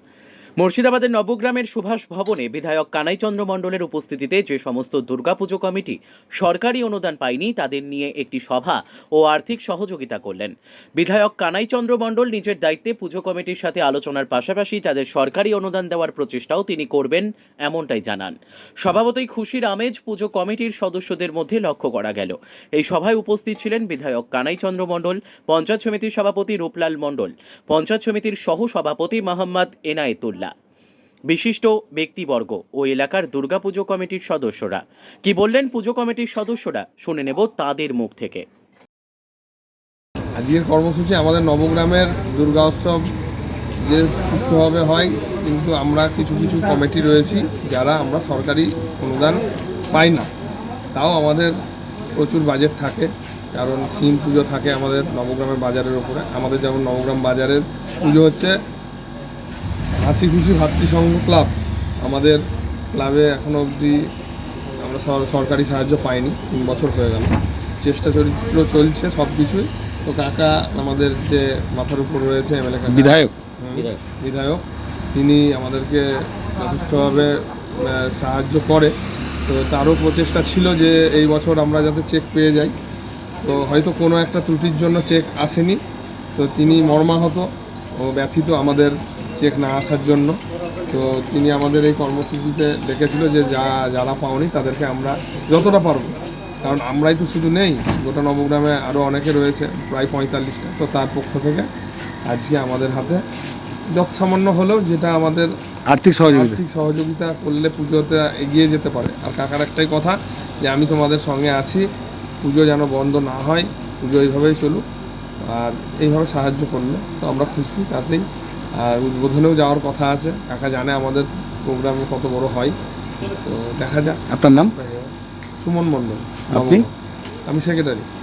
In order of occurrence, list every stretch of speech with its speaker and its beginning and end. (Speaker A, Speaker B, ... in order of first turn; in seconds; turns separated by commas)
Speaker A: 0.6-30.5, Speaker A: 31.3-38.5, Speaker B: 40.4-43.0, Speaker B: 43.8-49.4, Speaker B: 49.9-50.3, Speaker B: 51.0-51.6, Speaker B: 52.2-58.5, Speaker B: 60.0-64.1, Speaker B: 64.8-74.6, Speaker C: 72.9-74.0, Speaker B: 75.2-79.0, Speaker B: 79.5-82.8, Speaker B: 83.4-85.8, Speaker B: 86.4-87.5, Speaker B: 88.0-90.3, Speaker B: 90.9-101.7, Speaker B: 102.3-103.2, Speaker B: 103.9-105.5, Speaker C: 105.9-106.6, Speaker B: 106.3-111.8, Speaker B: 112.4-114.8, Speaker B: 115.4-118.3, Speaker B: 118.8-122.8, Speaker B: 123.4-124.2, Speaker C: 124.3-124.7, Speaker B: 124.7-126.9, Speaker C: 126.5-126.9, Speaker B: 127.5-128.1